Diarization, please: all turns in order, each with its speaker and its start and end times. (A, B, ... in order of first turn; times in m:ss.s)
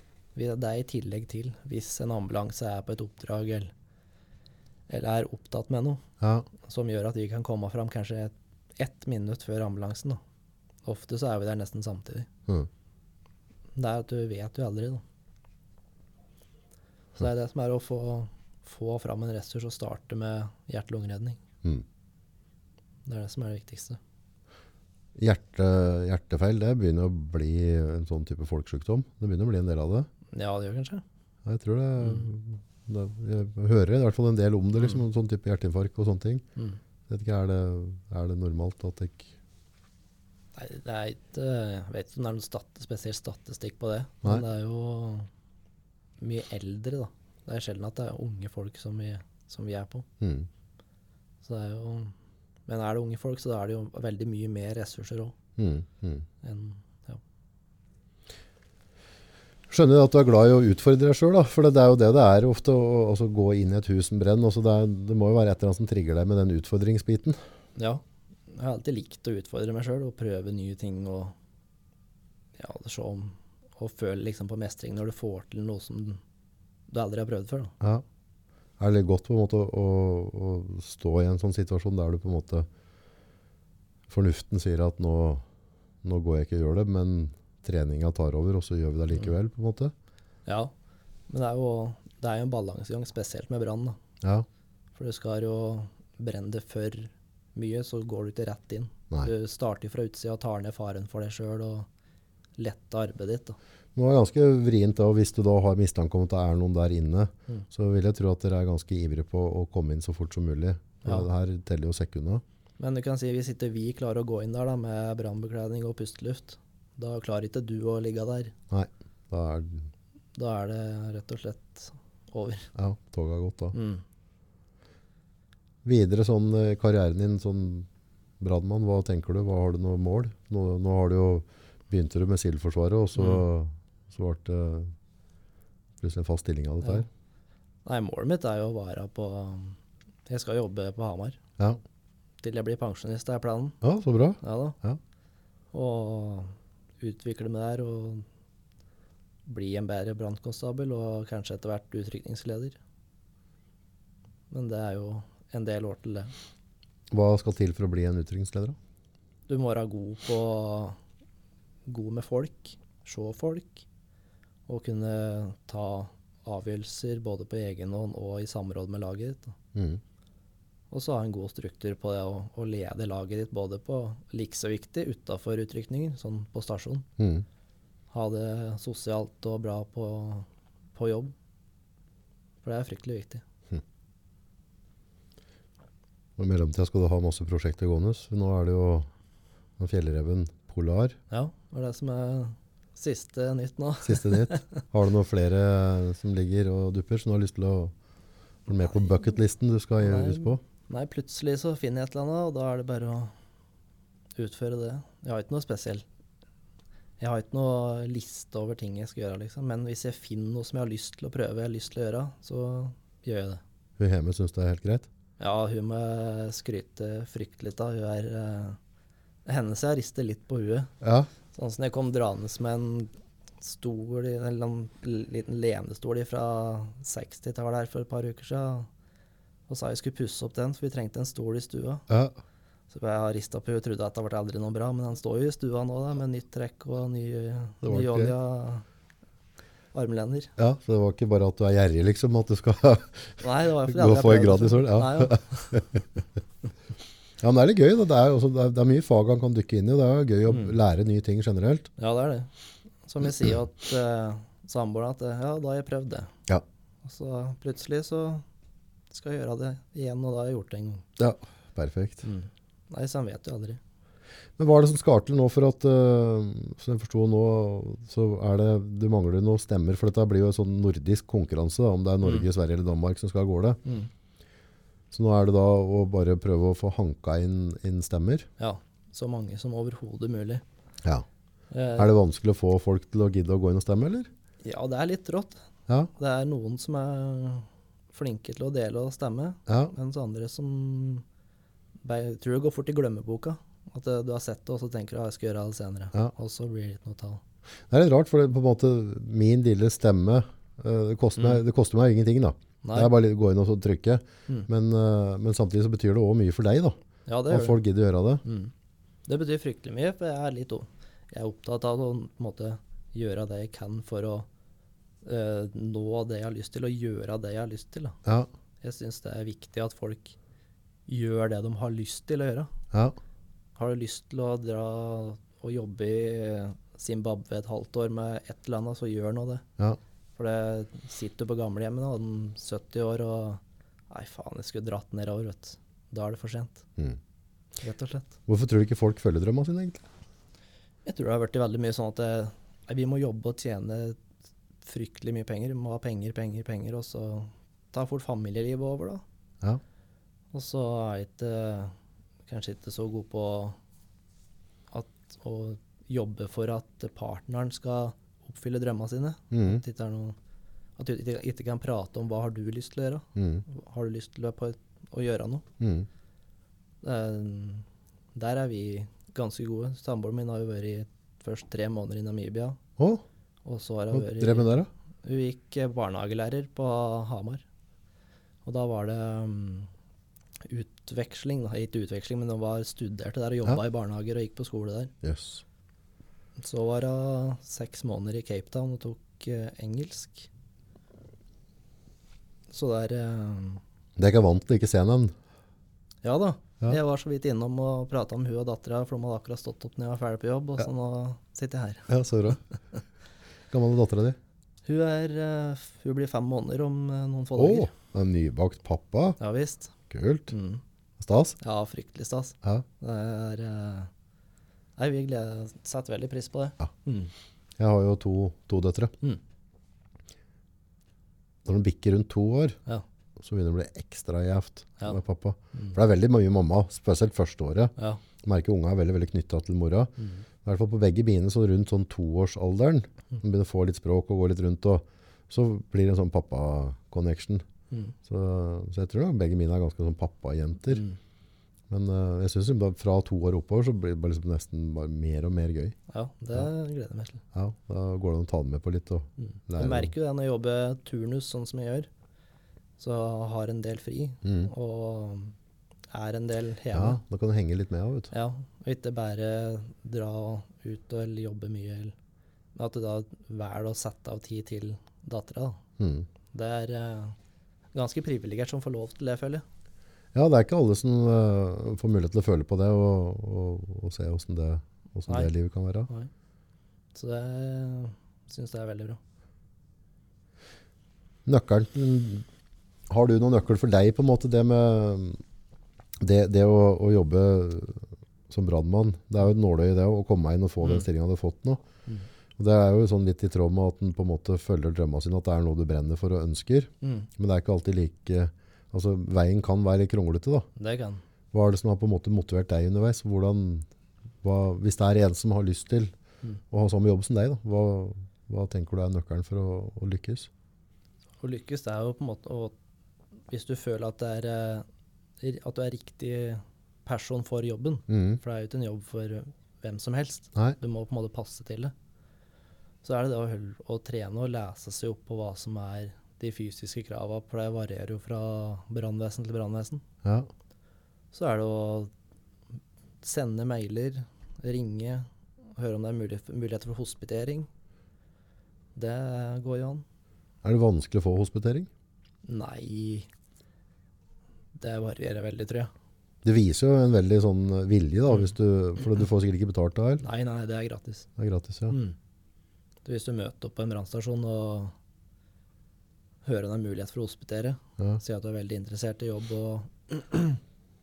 0:00.4-0:03.7 A
0:04.9-0:06.0 A
0:06.2-0:06.5 B
0:06.6-0:10.2 A
0:10.8-0:12.3 A
0:13.8-0:15.0 A
0:17.2-0:21.4 A
0:23.0-0:24.0 A
0:25.2-0:30.1 B
0:30.3-0:31.0 A
0:31.4-0:36.4 B
0:37.1-0:39.3 B
0:40.6-0:45.3 A
0:46.2-0:50.1 A
0:50.2-0:50.5 B
0:51.4-0:52.2 A
0:52.7-0:55.4 A
0:55.6-0:56.3 B
0:56.4-0:57.2 A
0:59.7-1:07.4 B
1:07.8-1:11.4 A
1:12.6-1:16.2 A
1:16.9-1:17.8 A
1:18.8-1:22.7 B
1:24.1-1:25.4 B
1:26.0-1:29.9 B
1:30.5-1:30.7 A
1:31.3-1:34.0 A
1:35.0-1:41.9 A
1:42.6-1:43.6 A
1:44.0-1:52.4 B
1:52.8-1:58.6 A
1:58.7-1:59.9 B
2:00.4-2:02.7 A
2:02.8-2:03.8 B
2:03.7-2:04.0 A
2:05.8-2:07.9 B
2:08.4-2:14.9 B
2:13.2-2:13.4 A
2:16.0-2:17.1 B
2:17.8-2:21.4 A
2:22.4-2:23.8 A
2:23.8-2:25.0 B
2:24.4-2:24.8 A
2:25.7-2:28.3 A
2:29.5-2:32.8 A
2:34.5-2:36.3 A
2:37.1-2:38.8 B
2:39.5-2:41.0 A
2:41.9-2:43.9 A
2:44.7-2:49.6 A
2:49.7-2:50.0 B
2:50.9-2:57.1 A
2:57.2-2:57.4 B
2:58.1-3:01.3 A
3:02.6-3:03.4 A
3:06.4-3:09.1 B
3:09.8-3:11.2 B
3:11.3-3:14.8 A
3:14.0-3:17.9 B
3:18.7-3:20.6 B
3:20.0-3:23.3 A
3:24.4-3:26.0 A
3:27.2-3:33.6 A
3:34.0-3:35.1 B
3:35.4-3:38.8 A
3:39.4-3:40.9 A
3:41.0-3:41.3 B
3:41.5-3:48.9 A
3:49.7-3:52.0 A
3:52.1-3:52.4 B
3:52.9-3:58.8 A
3:57.8-3:58.3 B
3:59.9-4:00.5 A
4:00.6-4:06.0 B
4:03.4-4:05.8 A
4:07.4-4:11.9 B
4:12.0-4:12.5 A
4:13.1-4:16.3 A
4:17.0-4:18.4 A
4:19.1-4:21.0 A
4:21.2-4:22.3 B
4:22.2-4:23.8 A
4:24.6-4:33.8 B
4:33.8-4:34.1 A
4:35.1-4:38.5 B
4:38.6-4:40.6 A
4:41.7-4:42.1 A
4:42.0-4:44.3 B
4:44.6-4:45.6 A
4:46.2-4:51.2 A
4:49.7-4:50.0 B
4:52.0-4:57.4 A
4:57.9-5:08.4 B
5:02.8-5:03.1 A
5:07.3-5:07.8 A
5:08.4-5:08.7 A
5:09.3-5:14.5 A
5:15.2-5:18.2 A
5:18.2-5:18.5 B
5:18.8-5:20.4 A
5:21.1-5:22.7 A
5:23.8-5:29.6 A
5:30.4-5:36.8 A
5:37.8-5:38.3 A
5:38.5-5:40.1 B
5:41.0-5:44.2 A
5:44.8-5:49.2 A
5:50.5-5:52.0 A
5:52.5-5:53.8 A
5:54.9-6:00.4 A
5:59.5-5:59.8 B
6:01.0-6:05.7 A
6:03.4-6:03.6 B
6:05.8-6:06.1 B
6:07.0-6:12.8 A
6:13.0-6:13.2 B
6:13.6-6:17.6 A
6:14.1-6:14.9 B
6:18.6-6:19.9 A
6:20.6-6:25.1 A
6:25.2-6:25.6 B
6:26.6-6:30.5 A
6:32.7-6:33.8 A
6:34.2-6:35.3 B
6:36.2-6:42.1 A
6:42.1-6:42.7 B
6:43.7-6:44.4 B
6:44.8-6:47.9 A
6:47.6-6:49.4 B
6:49.4-6:50.0 A
6:50.1-6:50.5 B
6:50.5-6:50.8 A
6:51.2-6:51.6 B
6:51.6-6:54.1 A
6:55.0-6:57.3 A
6:57.8-6:59.1 B
7:01.7-7:02.8 B
7:03.4-7:17.6 B
7:08.0-7:08.2 A
7:18.2-7:21.1 B
7:20.9-7:21.2 A
7:21.9-7:26.0 B
7:26.1-7:27.4 A
7:27.5-7:30.1 B
7:29.4-7:32.1 A
7:33.0-7:35.6 A
7:34.4-7:34.7 B
7:36.1-7:37.2 A
7:36.9-7:38.3 B
7:38.3-7:42.2 A
7:42.8-7:45.8 A
7:46.0-7:46.3 B
7:46.5-7:47.4 A
7:47.9-7:49.6 A
7:50.3-7:56.1 B
7:57.1-7:59.2 A
8:01.5-8:02.4 B
8:03.1-8:05.4 B
8:06.2-8:11.8 B
8:12.6-8:20.7 B
8:17.0-8:17.3 A
8:20.8-8:21.2 A
8:21.5-8:23.9 B
8:24.4-8:26.1 B
8:26.7-8:30.5 B
8:31.4-8:32.8 A
8:33.5-8:34.9 A
8:35.4-8:41.9 A
8:38.1-8:38.4 B
8:43.0-8:50.0 A
8:50.2-8:50.5 B
8:51.3-8:52.1 A
8:53.2-8:57.7 A
8:59.0-9:00.0 A
9:00.6-9:01.9 B
9:02.4-9:03.3 A
9:04.8-9:05.9 A
9:06.4-9:10.2 B
9:10.2-9:11.3 A
9:11.4-9:12.0 B
9:11.9-9:12.2 A
9:13.0-9:15.0 A
9:16.4-9:20.6 A